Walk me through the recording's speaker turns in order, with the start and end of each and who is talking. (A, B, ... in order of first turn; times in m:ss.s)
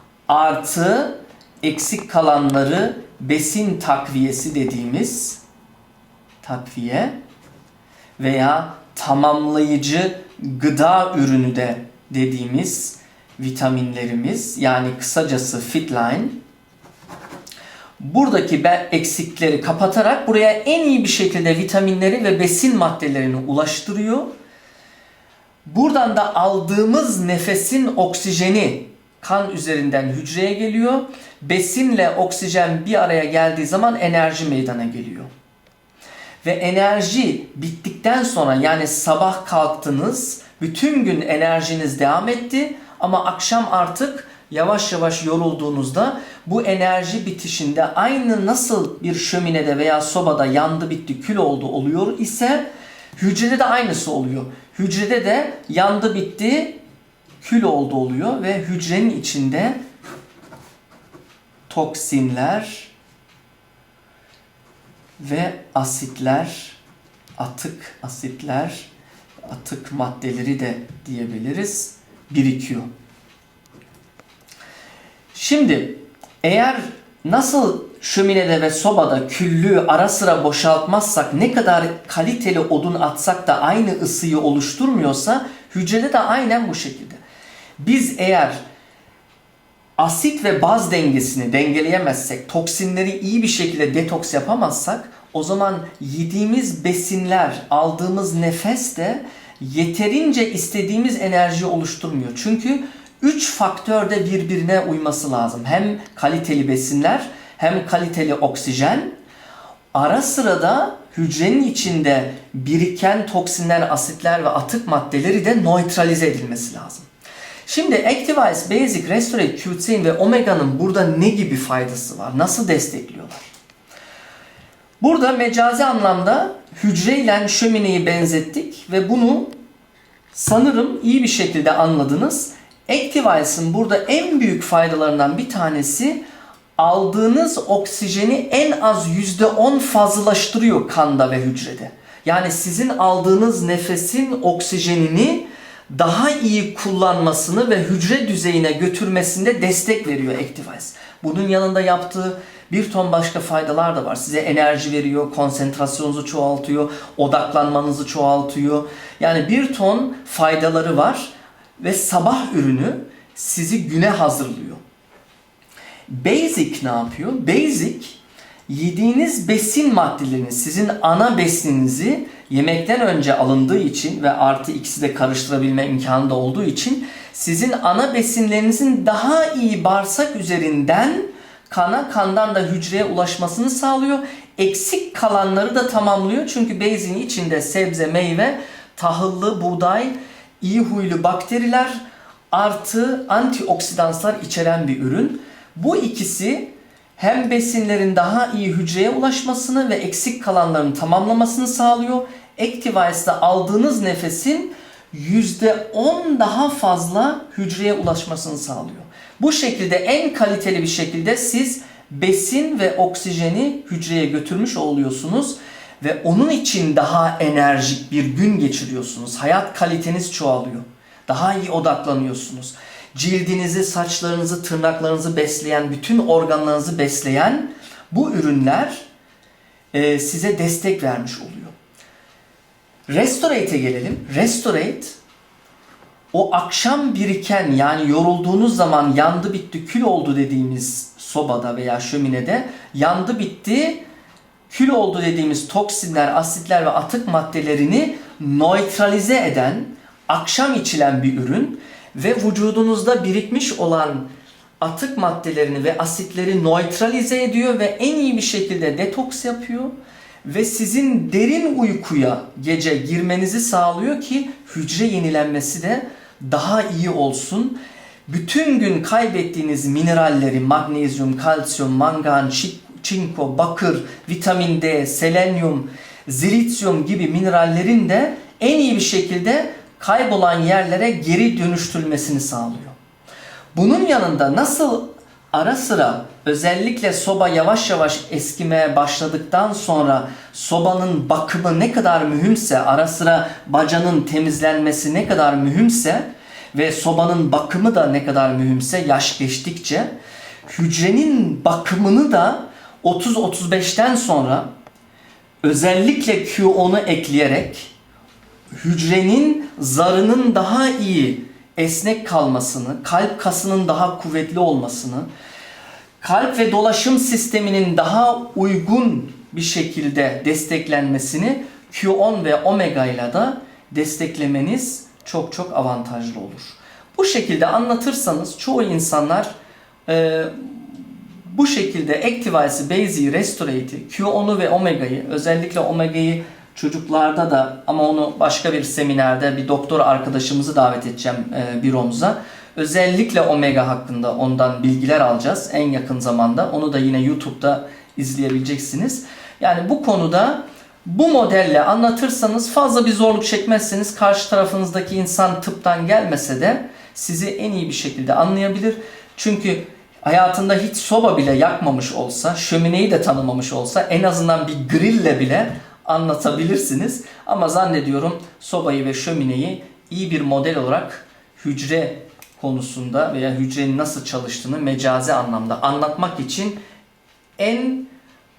0:00.3-0:05.4 A
0:06.4-0:07.2 A
0:08.2-0:16.4 A
0:18.0-0:24.3 A
0:25.7-0:35.3 A
0:36.4-0:56.8 A
0:57.4-0:59.8 A
1:01.7-1:02.9 A
1:05.2-1:06.8 A
1:07.4-1:08.9 A
1:09.5-1:12.9 A
1:15.3-1:27.2 A
1:27.8-1:28.6 A
1:30.0-1:49.2 A
1:49.9-1:57.1 A
1:57.7-2:03.5 A
2:05.0-2:09.6 A
2:10.3-2:16.2 A
2:16.8-2:44.8 A
2:46.1-3:49.1 A
3:49.9-3:51.7 A
3:53.1-3:55.2 A
3:56.3-4:04.0 A
4:04.7-4:14.3 A
4:14.8-4:43.0 A
4:43.8-5:00.1 A
5:00.7-5:04.7 A
5:05.6-5:07.9 A
5:08.8-5:15.3 A
5:16.2-5:29.5 A
5:30.1-6:16.8 A
6:17.6-6:18.1 A